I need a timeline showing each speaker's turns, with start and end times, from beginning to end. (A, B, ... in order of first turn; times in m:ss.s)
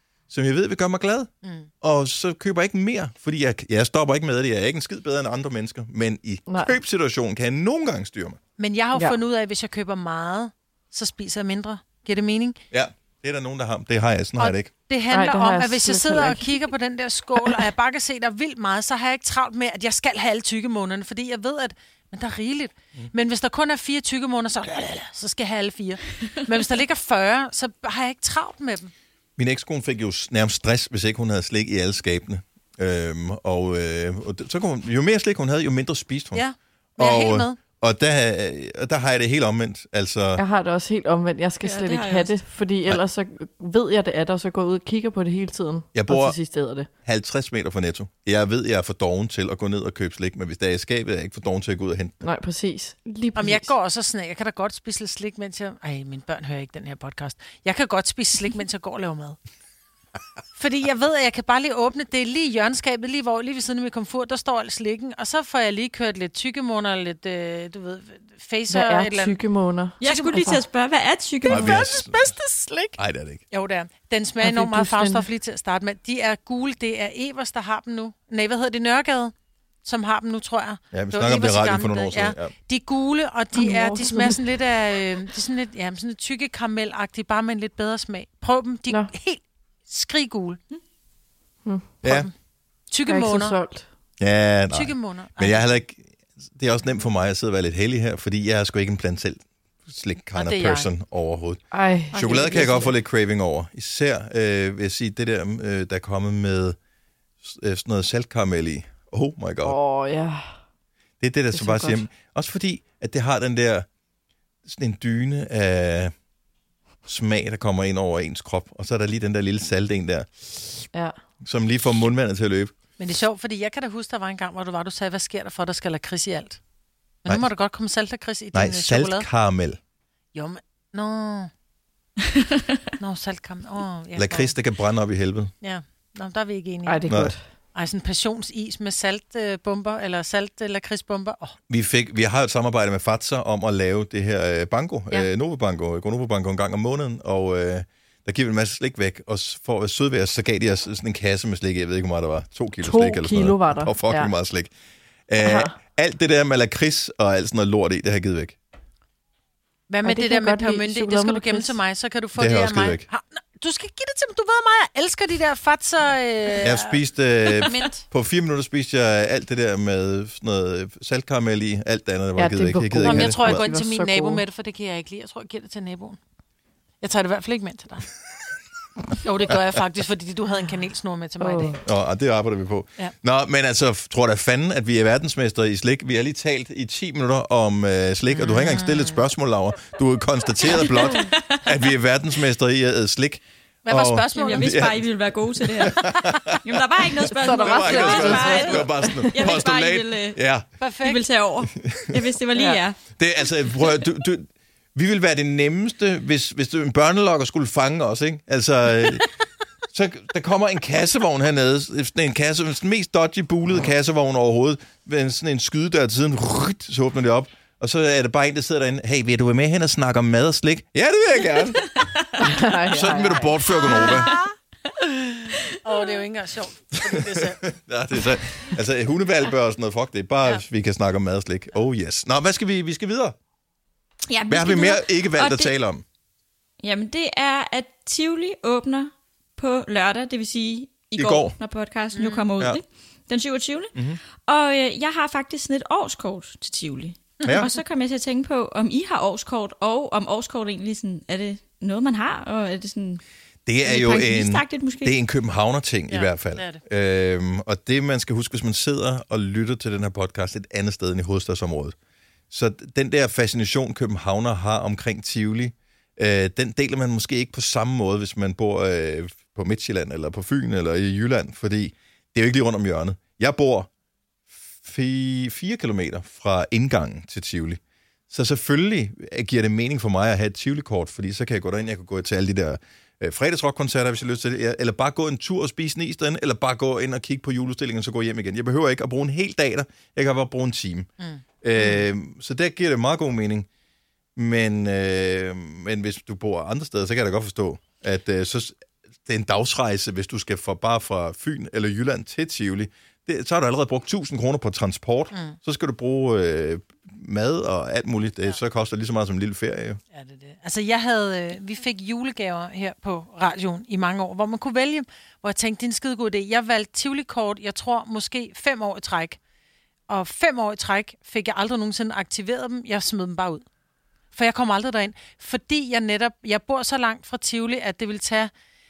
0:00.3-0:01.3 A
0:01.4-0:01.7 B
0:01.8-0:08.4 A
0:06.5-0:06.8 C
0:08.6-0:12.6 B
0:12.7-0:14.7 A
0:14.4-0:28.9 B
0:15.1-0:16.5 C
0:29.4-0:36.4 A
0:36.3-0:37.6 B
0:37.0-0:40.4 A
0:40.4-0:46.9 C
0:41.6-0:42.3 D
0:45.9-0:46.4 A
0:47.0-0:52.2 A
0:52.2-0:53.7 C
0:53.4-0:59.4 B
1:00.6-1:09.4 B
1:08.7-1:10.6 C
1:10.0-1:11.9 D
1:10.0-1:10.4 B
1:11.5-1:13.0 B
1:11.5-1:12.3 A
1:13.0-1:13.4 A
1:13.5-1:19.3 B
1:14.4-1:15.2 C
1:19.8-1:30.6 B
1:20.9-1:22.5 A
1:23.5-1:24.4 C
1:31.6-1:31.9 C
1:32.0-1:32.3 A
1:32.0-1:32.3 B
1:32.9-1:33.6 B
1:33.1-1:33.9 C
1:34.2-1:46.8 A
1:34.7-1:35.7 B
1:40.4-1:40.9 B
1:41.7-1:42.9 C
1:47.4-1:49.8 A
1:49.6-1:50.6 C
1:51.2-1:53.9 A
1:51.5-1:52.0 C
1:54.6-1:56.1 A
1:57.0-2:00.8 A
2:01.4-2:02.7 A
2:03.0-2:06.6 B
2:07.2-2:09.3 B
2:08.5-2:09.8 A
2:10.3-2:11.5 B
2:13.0-2:14.6 B
2:14.2-2:15.5 A
2:15.6-2:17.0 B
2:16.9-2:17.4 C
2:17.1-2:17.3 A
2:17.7-2:21.6 B
2:21.7-2:34.7 A
2:32.8-2:34.3 C
2:35.3-2:38.6 A
2:35.4-2:35.8 C
2:39.9-2:48.0 B
2:40.0-2:41.8 C
2:42.4-2:43.0 A
2:46.6-2:53.6 A
2:52.4-2:54.4 C
2:53.0-2:56.2 B
2:57.0-2:58.1 B
2:59.2-3:01.8 B
3:01.4-3:01.8 C
3:01.8-3:15.2 A
3:08.3-3:09.2 B
3:10.8-3:11.6 D
3:13.9-3:14.9 B
3:14.4-3:20.4 D
3:15.8-3:16.8 A
3:17.4-3:19.3 C
3:17.4-3:20.6 A
3:20.8-3:21.2 B
3:21.0-3:23.0 D
3:21.8-3:22.2 A
3:23.2-3:29.3 A
3:29.9-3:44.3 A
3:41.9-3:42.2 D
3:42.4-3:43.6 C
3:43.9-3:44.5 B
3:45.8-3:47.7 B
3:47.0-3:53.4 A
3:54.3-3:55.7 D
3:54.5-3:56.0 A
3:56.8-4:03.9 D
4:01.2-4:01.5 A
4:02.1-4:02.5 B
4:04.4-4:13.2 D
4:07.4-4:07.6 B
4:13.6-4:22.0 A
4:13.8-4:15.1 D
4:16.1-4:16.8 B
4:22.5-4:33.9 A
4:34.8-4:51.1 A
4:51.6-4:53.7 A
4:54.4-5:10.0 A
5:10.1-5:19.4 B
5:20.1-5:23.6 B
5:24.3-5:28.5 B